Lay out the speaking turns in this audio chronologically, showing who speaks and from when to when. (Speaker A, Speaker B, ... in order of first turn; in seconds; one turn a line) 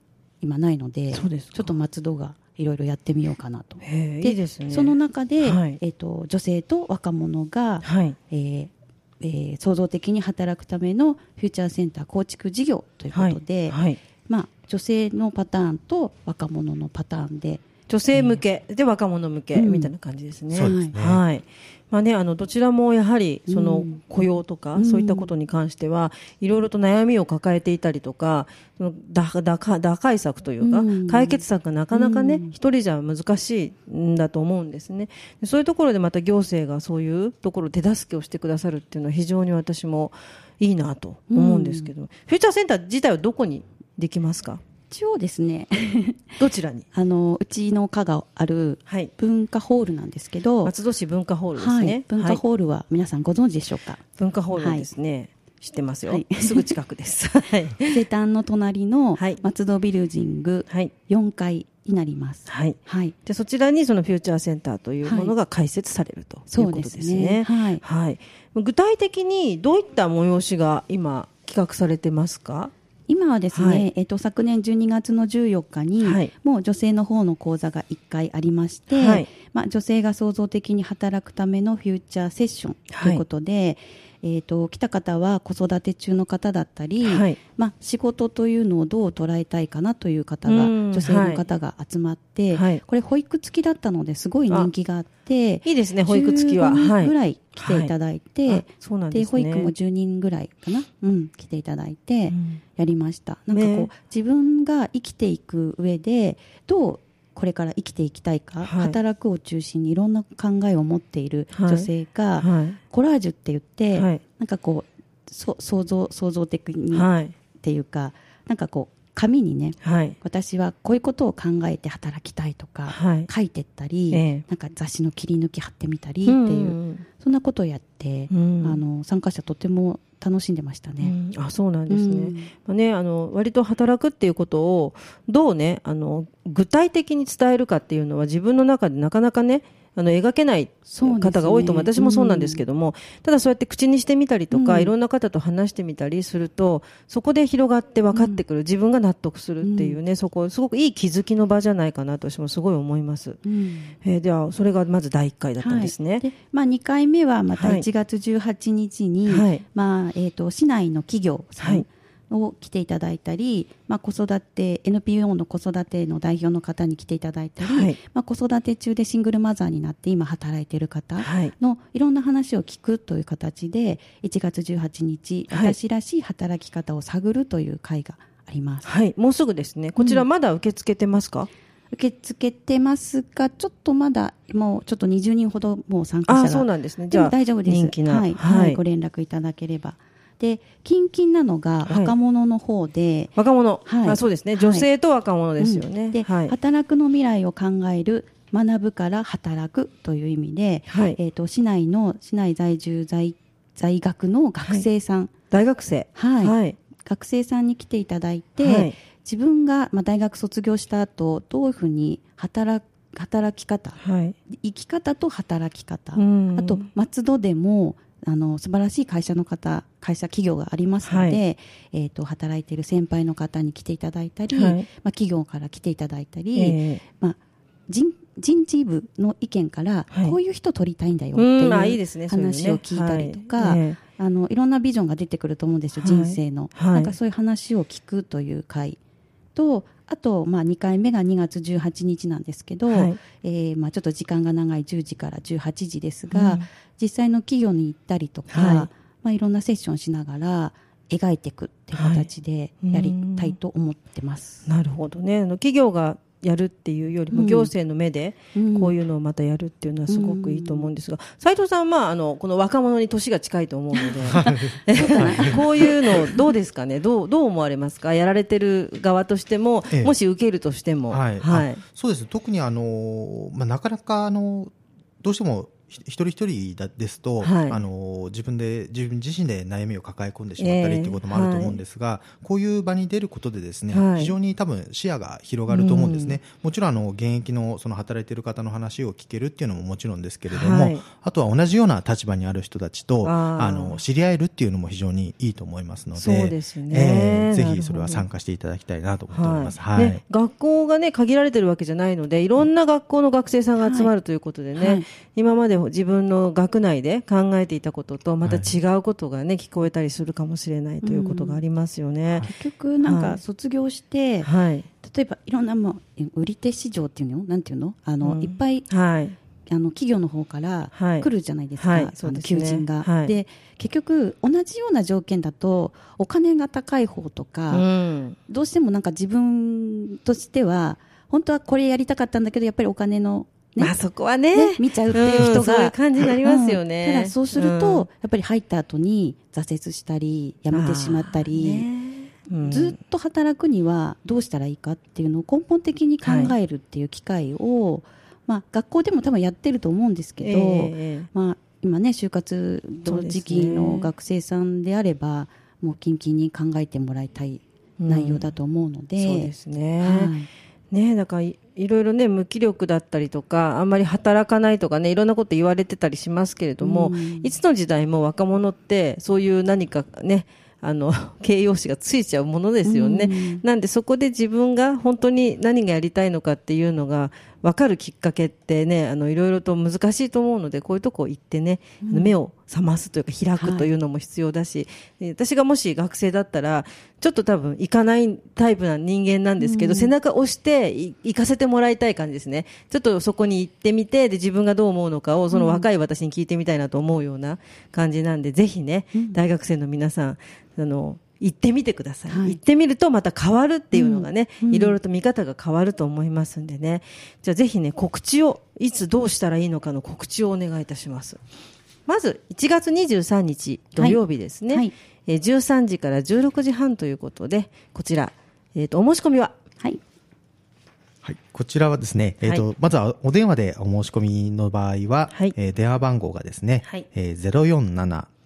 Speaker A: 0.4-18.4
Speaker B: 1.1-1.7
Speaker B: 3.8-5.8
Speaker B: 7.8-8.2
Speaker B: 13.1-14.0
Speaker B: 17.9-44.6
Speaker A: 19.5-19.9
Speaker C: 20.5-21.2
Speaker A: 20.6-20.9
Speaker A: 23.5-24.0
Speaker A: 24.8-25.3
Speaker A: 30.6-32.5
Speaker A: 41.3-41.9
Speaker A: 44.9-46.4
Speaker B: 46.4-46.9
Speaker A: 46.9-50.7
Speaker B: 50.6-52.4
Speaker A: 51.5-54.0
Speaker B: 54.2-58.1
Speaker A: 54.6-54.9
Speaker A: 56.1-56.8
Speaker A: 57.8-63.1
Speaker B: 59.2-59.4
Speaker B: 62.5-72.7
Speaker A: 65.0-65.3
Speaker A: 66.5-67.8
Speaker A: 73.1-117.1
Speaker B: 73.5-73.9
Speaker B: 76.0-76.3
Speaker B: 78.9-79.3
Speaker B: 82.9-83.2
Speaker B: 87.0-87.4
Speaker B: 90.5-91.5
Speaker B: 92.5-92.8
Speaker B: 95.6-97.9
Speaker B: 98.5-99.7
Speaker B: 102.3-102.6
Speaker B: 103.5-103.9
Speaker B: 108.6-109.0
Speaker B: 111.5-111.9
Speaker B: 112.4-112.8
Speaker B: 114.0-114.2
Speaker B: 116.9-117.3
Speaker A: 117.6-131.1
Speaker B: 119.8-120.2
Speaker B: 122.9-123.3
Speaker B: 124.1-124.4
Speaker B: 126.3-127.0
Speaker B: 128.3-128.8
Speaker B: 131.0-153.4
Speaker A: 131.9-132.5
Speaker A: 140.9-142.6
Speaker A: 144.5-144.9
Speaker A: 148.1-148.4
Speaker A: 149.6-150.0
Speaker A: 153.4-153.9
Speaker B: 154.0-156.3
Speaker A: 155.6-178.9
Speaker B: 157.6-157.9
Speaker B: 159.3-159.6
Speaker B: 161.6-161.9
Speaker B: 167.6-168.0
Speaker B: 171.2-171.5
Speaker B: 175.5-175.8
Speaker B: 178.8-181.5
Speaker A: 180.0-180.3
Speaker A: 181.9-193.3
Speaker B: 186.3-188.8
Speaker B: 191.9-192.1
Speaker B: 193.4-196.5
Speaker A: 193.8-194.9
Speaker A: 195.6-205.3
Speaker B: 200.9-201.2
Speaker B: 205.5-206.8
Speaker A: 206.2-239.0
Speaker B: 208.6-208.9
Speaker B: 214.0-214.3
Speaker B: 216.2-216.9
Speaker B: 221.1-221.4
Speaker B: 224.5-224.9
Speaker B: 226.6-227.0
Speaker B: 230.1-230.4
Speaker B: 231.3-234.0
Speaker B: 236.0-237.2
Speaker A: 239.6-254.7
Speaker B: 242.9-243.2
Speaker B: 246.3-246.7
Speaker B: 248.5-248.9
Speaker B: 251.9-252.3
Speaker B: 252.8-253.6
Speaker B: 254.7-271.8
Speaker A: 257.3-257.7
Speaker A: 258.5-259.0
Speaker A: 260.1-260.9
Speaker A: 264.0-266.4
Speaker C: 264.2-265.9
Speaker C: 271.1-300.2
Speaker B: 277.4-277.8
Speaker B: 280.6-281.8
Speaker B: 283.9-284.4
Speaker B: 285.7-286.4
Speaker B: 290.5-291.0
Speaker B: 293.2-294.0
Speaker B: 296.2-298.3
Speaker B: 299.3-312.5
Speaker A: 303.8-304.1
Speaker A: 304.7-305.1
Speaker C: 308.4-308.7
Speaker A: 311.0-311.6
Speaker A: 312.4-314.5
Speaker B: 313.0-313.4
Speaker B: 314.4-314.9
Speaker A: 315.0-318.9
Speaker B: 318.2-319.4
Speaker A: 319.7-327.9
Speaker B: 320.9-323.3
Speaker B: 327.7-328.4
Speaker A: 328.5-334.0
Speaker B: 333.8-338.1
Speaker A: 334.5-341.9
Speaker B: 340.7-343.0
Speaker A: 342.6-360.5
Speaker B: 346.2-346.6
Speaker B: 350.4-351.3
Speaker B: 353.1-354.1
Speaker B: 358.0-358.5
Speaker B: 359.2-360.3
Speaker B: 360.9-411.4
Speaker A: 366.8-367.5
Speaker A: 372.9-373.6
Speaker A: 382.0-382.4
Speaker A: 383.6-383.9
Speaker A: 389.6-390.1
Speaker A: 395.5-395.9
Speaker A: 399.1-399.4
Speaker A: 402.3-402.6
Speaker A: 403.9-405.0
Speaker B: 412.1-419.6
Speaker A: 414.0-414.9
Speaker C: 421.2-428.3